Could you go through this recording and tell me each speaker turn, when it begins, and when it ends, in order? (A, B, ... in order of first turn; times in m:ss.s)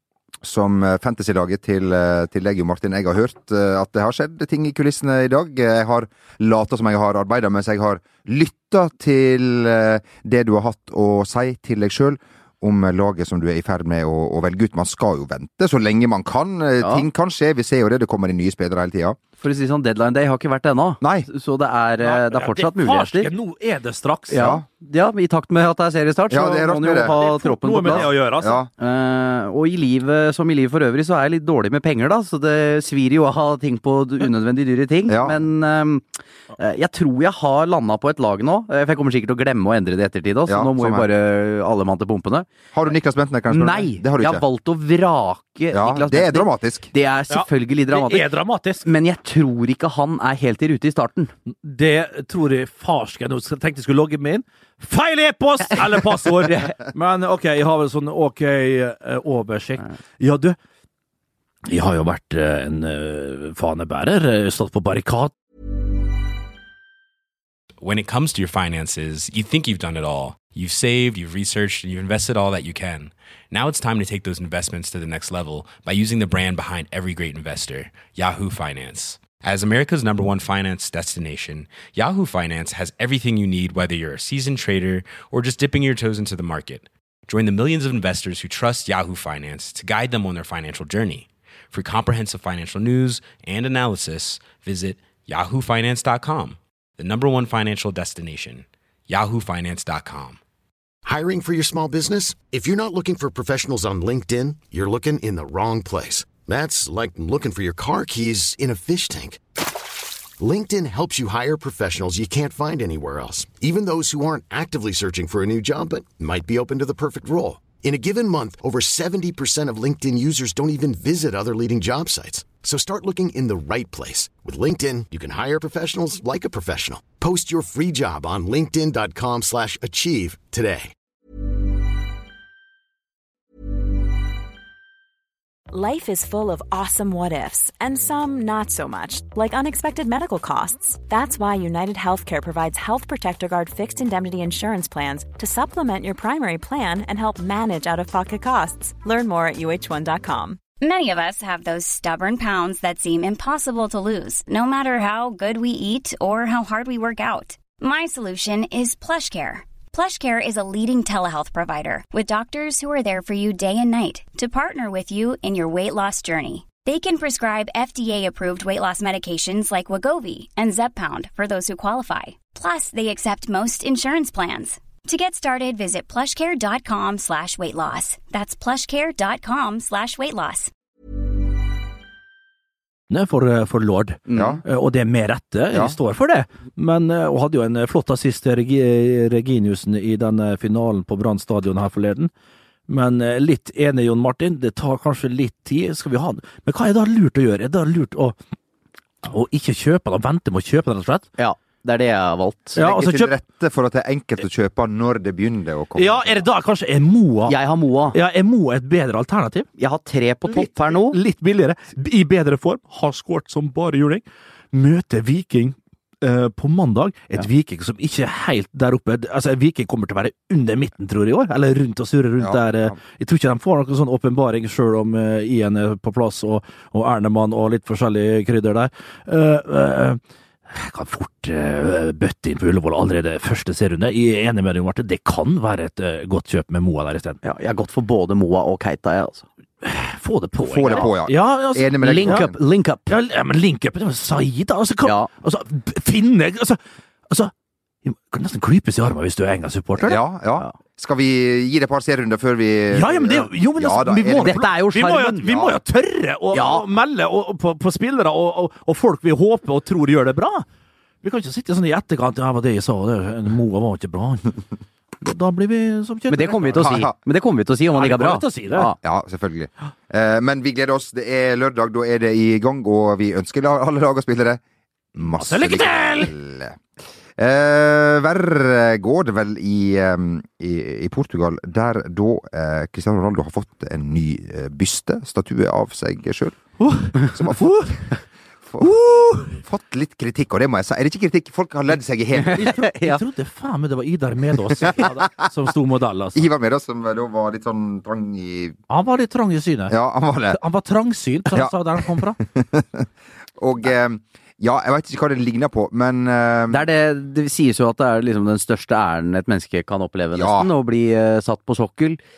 0:00.4-0:19.2 A
0:16.8-0:17.0 B
0:19.4-0:23.3 B
0:21.0-0:21.3 A
0:22.0-0:24.5 C
0:24.3-0:28.1 B
0:24.3-0:24.6 A
0:26.3-0:27.1 A
0:27.1-0:28.6 C
0:27.8-0:28.7 A
0:28.8-0:42.5 B
0:35.1-0:35.4 A
0:40.5-0:41.0 A
0:42.7-0:44.4 A
0:43.5-0:51.3 B
0:45.7-0:46.9 A
0:47.3-0:48.8 C
0:51.5-1:00.6 C
0:56.4-0:56.7 B
1:01.6-1:05.3 C
1:07.8-1:40.4 D
1:41.0-1:49.4 E
1:50.4-2:10.9 E
2:15.7-2:30.6 F
2:30.8-3:00.7 G
3:03.1-3:12.3 C
3:04.3-3:04.6 B
3:04.3-3:04.6 A
3:12.9-3:18.4 C
3:19.2-3:21.3 C
3:21.4-3:22.8 B
3:22.7-3:23.3 C
3:22.8-3:26.4 A
3:26.0-3:27.6 C
3:27.5-3:28.2 B
3:28.1-3:29.7 C
3:29.8-3:31.2 B
3:30.5-3:57.4 C
3:42.4-3:43.0 A
3:57.4-3:59.4 B
3:59.8-4:02.5 C
4:00.6-4:02.6 A
4:02.0-4:03.2 B
4:03.1-4:06.8 C
4:05.0-4:05.3 B
4:08.0-4:10.2 C
4:10.0-4:14.6 A
4:12.9-4:20.6 C
4:14.4-4:15.7 B
4:16.5-4:16.8 B
4:21.2-4:24.5 C
4:25.2-4:27.1 C
4:26.3-4:29.0 B
4:26.8-4:27.1 A
4:27.9-4:28.9 C
4:29.0-4:34.6 A
4:35.1-4:36.8 A
4:35.2-4:36.3 C
4:37.4-4:46.6 A
4:46.8-4:47.9 C
4:47.3-4:48.1 A
4:48.7-4:52.7 A
4:48.8-4:49.6 C
4:52.4-4:53.2 B
4:52.5-4:56.5 C
4:54.8-4:55.3 A
4:56.3-4:58.8 A
4:58.9-5:00.0 C
4:59.9-5:00.6 A
5:00.5-5:02.4 C
5:01.5-5:06.8 A
5:06.7-5:12.2 B
5:10.3-5:10.7 A